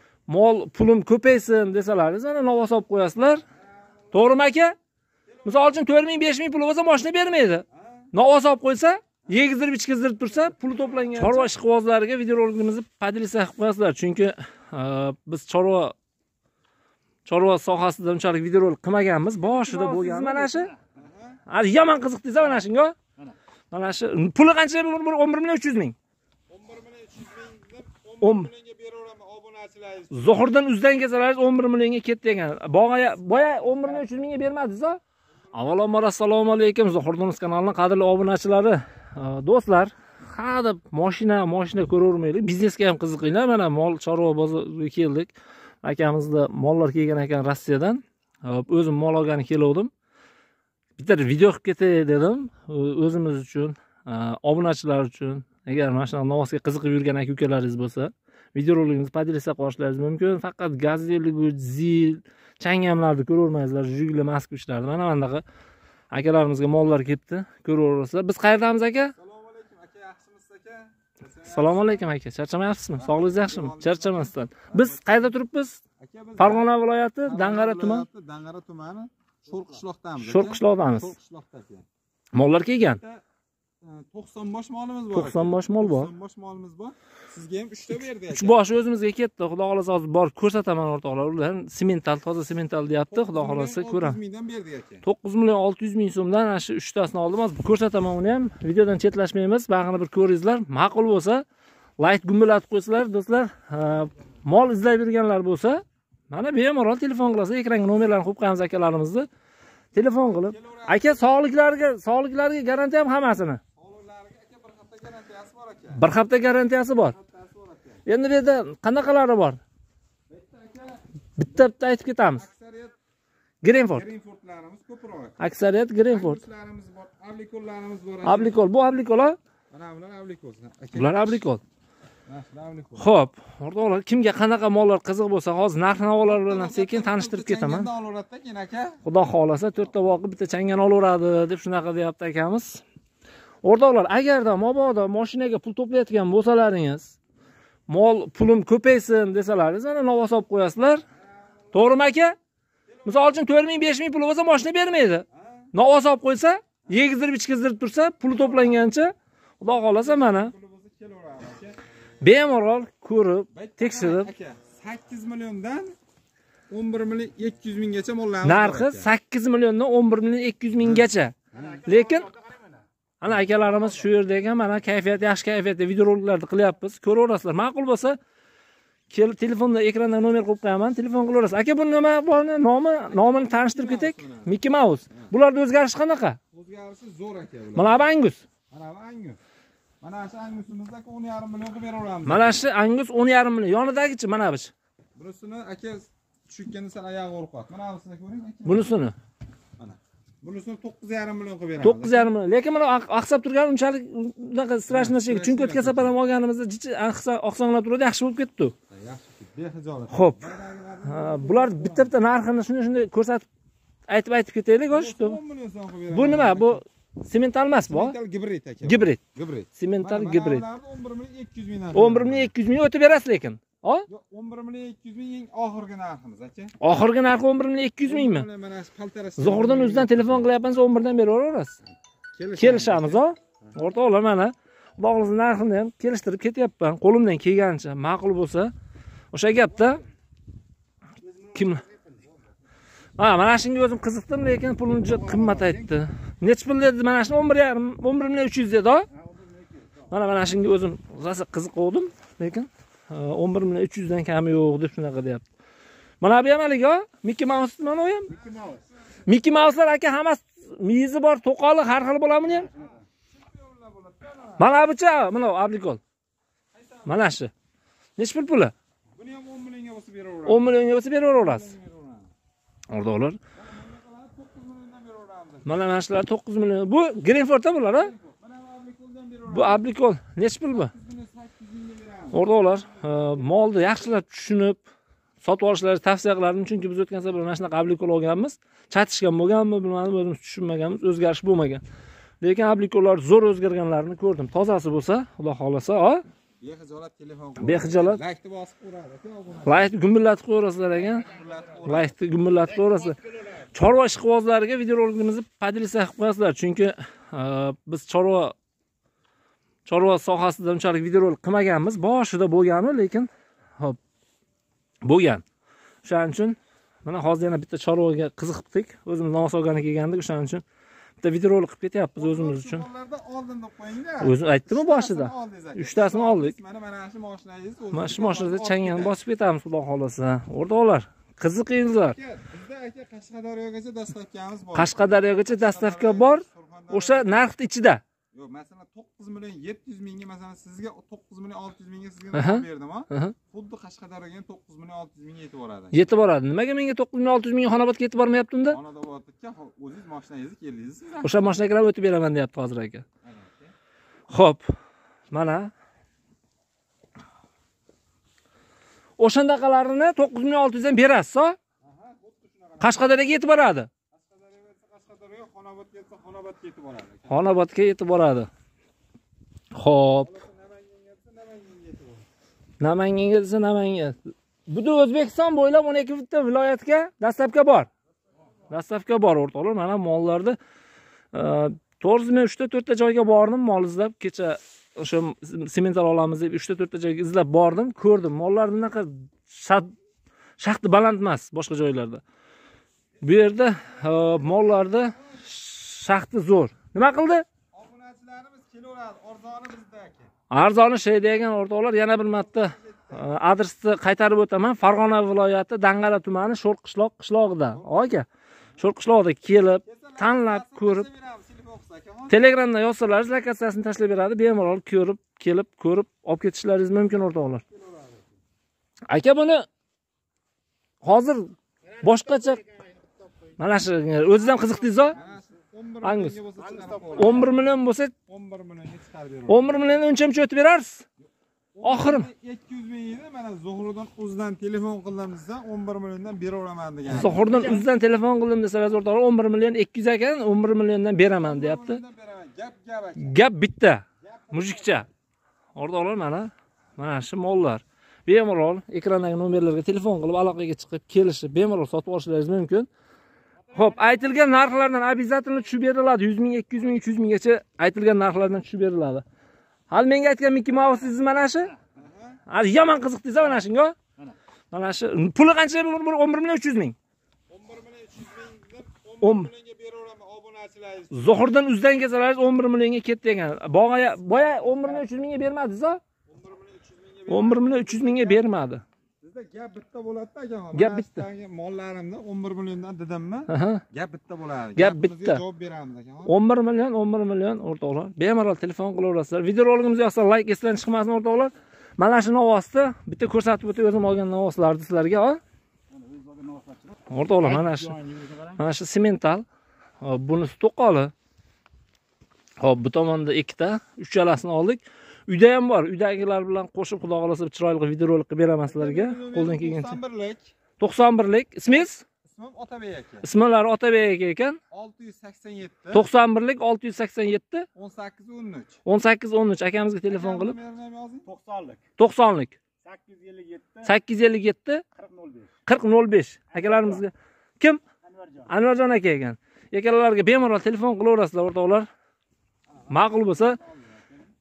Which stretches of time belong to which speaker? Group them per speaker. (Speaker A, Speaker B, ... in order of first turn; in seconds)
Speaker A: 0.3-3.4, 4.1-4.8, 5.4-15.9, 17.2-20.7, 21.5-22.9, 23.7-25.9, 28.2-28.5, 30.1-35.0, 35.5-49.9, 51.0-65.4, 66.1-69.1, 71.5-75.8, 76.4-78.1, 80.2-81.1, 82.3-83.0, 85.1-86.1, 87.9-94.2, 95.0-101.4, 102.0-109.3, 109.9-113.6, 115.9-117.2, 118.0-119.6, 121.4-122.4, 123.6-124.0, 125.4-126.4, 128.2-129.4, 130.9-131.6, 133.0-137.9, 139.0-142.8, 143.6-147.1, 147.9-151.0, 151.7-152.3, 153.1-160.5, 162.2-164.3, 168.4-172.3, 173.2-178.2, 179.1-186.4, 187.7-188.4, 192.2-194.7, 198.6-199.2, 201.8-208.8, 210.1-210.4, 211.0-213.4, 214.1-215.4, 216.1-218.1, 218.8-219.2, 219.8-220.6, 221.9-224.1, 226.8-228.5, 229.4-231.8, 232.6-238.7, 239.3-240.0, 241.5-241.8, 243.2-249.1, 250.1-255.4, 256.2-258.4, 259.2-262.7, 264.6-266.0, 267.0-267.5, 268.2-268.7, 270.4-271.7, 272.9-273.4, 275.6-278.1, 279.5-280.9, 282.3-284.9, 285.4-291.8, 292.4-296.2, 297.6-298.2, 299.6-301.3, 301.8-308.5, 309.9-314.0, 315.0-315.4, 316.0-320.6, 321.2-322.8, 324.2-326.6, 327.9-332.1, 334.7-338.0, 342.3-343.4, 345.9-348.8, 351.2-353.0, 354.3-354.6, 355.3-355.7, 359.2-361.6, 362.8-363.9, 367.3-368.5, 369.7-370.4, 372.8-377.9, 378.7-380.6, 381.3-389.9, 390.6-392.2, 393.2-397.4, 400.5-408.2, 408.8-411.1, 412.3-417.6, 419.1-419.6, 421.0-422.6, 423.6-425.2, 426.0-426.4, 427.1-428.1, 429.5-431.0, 431.8-432.3, 437.1-442.0, 443.2-445.1, 445.8-452.9, 453.7-459.2, 459.9-461.7, 462.5-463.9, 464.7-466.9, 469.2-469.5, 471.1-476.0, 477.3-478.8, 480.7-481.2, 483.5-483.8, 484.8-485.4, 486.2-495.4, 497.1-499.4, 500.0-501.1, 502.6-510.0, 510.8-512.0, 513.2-514.6, 515.9-517.7, 518.8-520.5, 522.0-522.5, 523.8-524.8, 525.7-527.8, 528.5-531.9, 532.9-533.6
Speaker B: 3.8-4.4, 5.3-5.8, 7.7-8.1, 10.5-11.5, 20.9-21.4, 26.5-30.4, 35.5-35.8, 69.2-72.1, 73.0-75.3, 76.0-76.7, 77.2-81.8, 82.8-83.2, 83.8-88.6, 93.1-95.0, 109.9-111.3, 113.7-116.0, 117.0-118.0, 120.3-121.0, 122.3-122.9, 123.8-125.4, 126.0-128.6, 129.7-131.4, 132.3-133.1, 136.2-139.0, 139.7-140.1, 151.1-152.1, 152.9-153.5, 155.3-155.7, 158.3-158.8, 159.6-161.8, 163.5-165.9, 166.7-169.1, 170.8-171.9, 183.1-184.6, 186.5-188.1, 188.7-189.4, 190.0-192.7, 195.2-198.9, 199.8-202.3, 204.9-206.1, 208.9-212.1, 214.9-216.8, 217.9-222.5, 224.1-226.8, 228.0-230.5, 232.3-233.2, 245.0-245.9, 263.3-264.7, 266.7-267.3, 269.1-272.3, 273.6-275.8, 277.9-279.8, 280.7-283.9, 296.6-299.9, 301.1-302.1, 322.2-329.1, 332.1-337.5, 338.3-346.1, 348.7-351.6, 353.2-353.7, 361.8-363.5, 364.1-367.6, 370.2-372.2, 393.2-395.4, 397.7-400.3, 402.1-403.3, 407.7-408.2, 409.8-412.4, 417.8-418.2, 425.1-427.6, 428.3-429.9, 431.7-437.9, 441.3-443.4, 444.2-445.0, 461.9-462.4, 467.5-471.5, 474.6-474.9, 476.3-478.5, 479.2-486.3, 508.6-510.5, 511.7-513.3, 514.7-516.1, 517.7-518.8, 520.0-521.3, 532.8-534.3
Speaker C: 19.8-20.7, 171.8-172.7, 241.2-242.2, 249.2-249.9, 258.4-258.8, 422.4-423.5, 426.8-427.2, 495.9-496.9, 497.6-498.6, 521.3-521.8, 522.8-523.9, 525.0-525.5, 526.5-527.0, 528.0-528.5